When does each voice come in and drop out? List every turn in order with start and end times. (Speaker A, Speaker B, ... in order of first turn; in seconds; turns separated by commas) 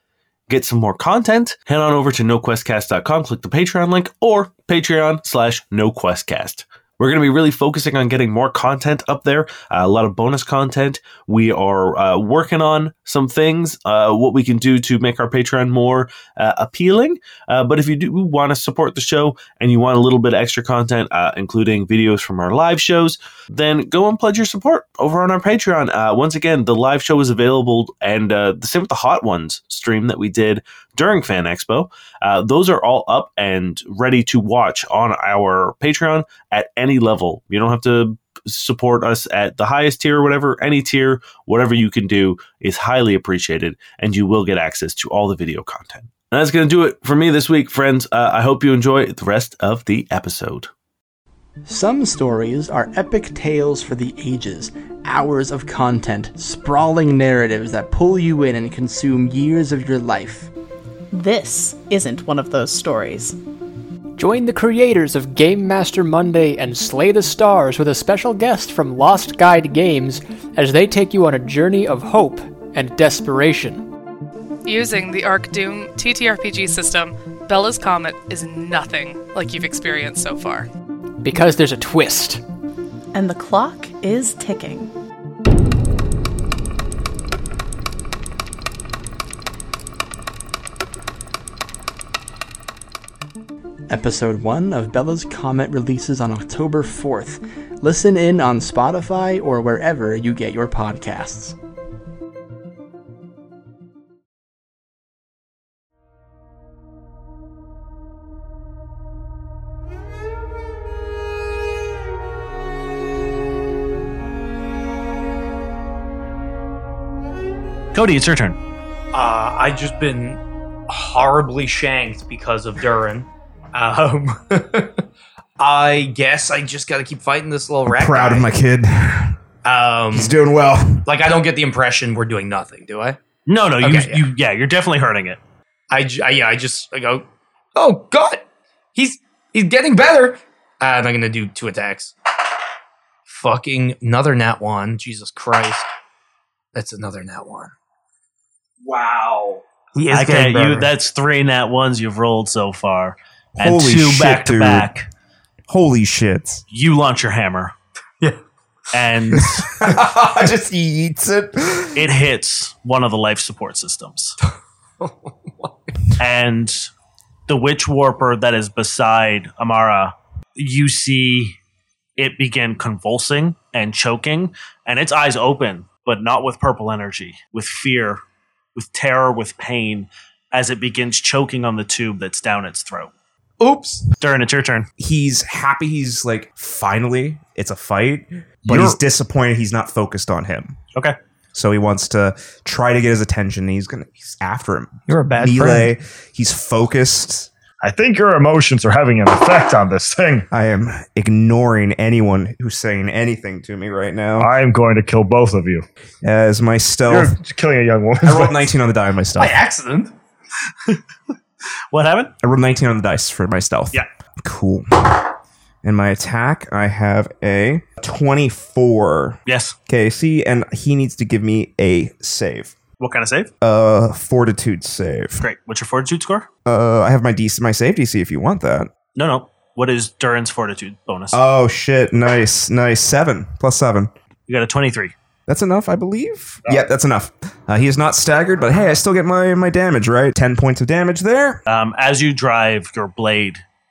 Speaker A: 0.5-50.7, Speaker B: 51.7-60.5, Speaker C: 61.1-63.4, Speaker D: 64.2-73.9, Speaker E: 74.7-80.7, Speaker D: 81.2-82.4, Speaker C: 83.1-84.9, Speaker B: 93.9-101.5, Speaker F: 117.9-118.6, Speaker G: 119.1-125.0, Speaker G: 125.6-128.5, Speaker H: 127.9-129.4, Speaker G: 129.6-130.3, Speaker H: 130.1-131.1, Speaker G: 131.1-133.2, Speaker F: 133.5-135.4, Speaker G: 133.8-134.3, Speaker G: 135.9-138.4, Speaker G: 138.9-142.1, Speaker G: 143.3-145.9, Speaker G: 146.7-147.7, Speaker I: 149.0-149.3, Speaker G: 150.0-150.9, Speaker F: 150.1-155.1, Speaker H: 153.6-154.9, Speaker H: 155.7-156.6, Speaker F: 156.7-157.7, Speaker F: 158.9-159.7, Speaker H: 159.7-162.1, Speaker F: 161.9-164.4, Speaker G: 165.0-165.9, Speaker F: 166.2-166.9, Speaker F: 167.5-171.6, Speaker F: 172.2-178.2, Speaker F: 178.8-183.1, Speaker G: 183.6-184.0, Speaker F: 184.2-184.9, Speaker H: 185.0-190.8, Speaker F: 188.7-189.0, Speaker H: 191.5-197.5, Speaker G: 195.1-195.9, Speaker I: 197.8-200.5, Speaker H: 200.5-204.5, Speaker I: 204.4-205.8, Speaker H: 206.2-207.4, Speaker I: 207.1-208.7, Speaker H: 208.2-209.6, Speaker G: 209.4-210.1, Speaker F: 211.9-212.3, Speaker H: 212.4-215.3, Speaker H: 215.8-222.8, Speaker F: 219.5-219.8, Speaker F: 223.0-223.5, Speaker H: 223.6-225.4, Speaker F: 225.4-226.5, Speaker H: 226.7-228.9, Speaker F: 229.2-231.4, Speaker H: 231.3-234.1, Speaker F: 234.5-235.1, Speaker H: 235.5-241.6, Speaker F: 241.7-243.6